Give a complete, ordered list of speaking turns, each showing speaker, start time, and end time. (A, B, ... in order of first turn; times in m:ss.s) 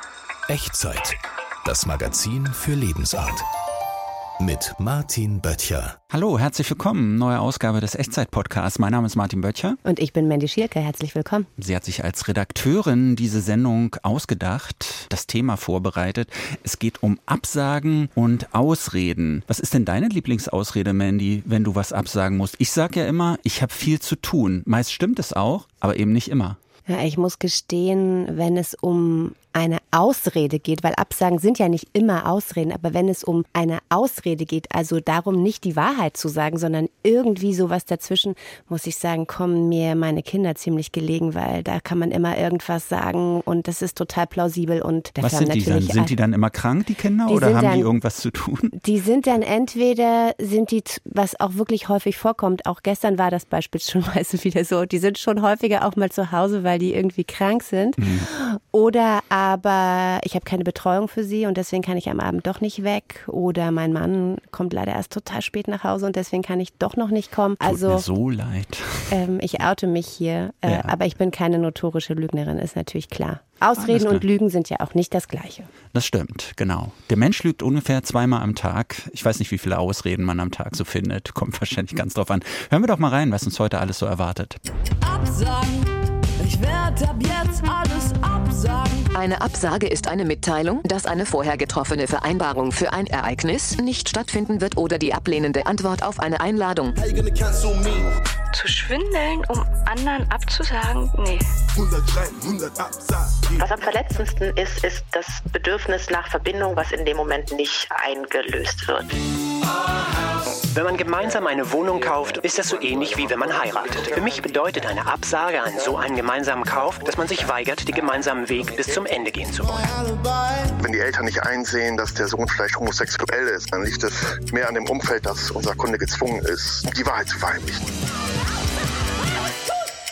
0:00.5-0:03.4 A
0:04.4-0:06.0 A
0:06.1-0:09.8 B
0:09.8-0:11.5 C
0:11.6-0:26.6 B
0:26.9-0:46.1 C
0:45.2-0:48.7 B
0:47.3-0:47.9 C
0:48.7-1:08.0 C
0:58.0-0:58.3 B
1:07.6-1:09.2 B
1:09.1-1:15.7 C
1:10.6-1:10.9 B
1:13.8-1:14.2 B
1:15.9-1:24.6 B
1:25.0-1:25.8 D
1:26.4-1:29.1 D
1:29.1-1:37.0 E
1:38.5-1:41.5 F
1:43.6-1:49.1 G
1:50.5-1:59.9 H
2:00.8-2:07.9 I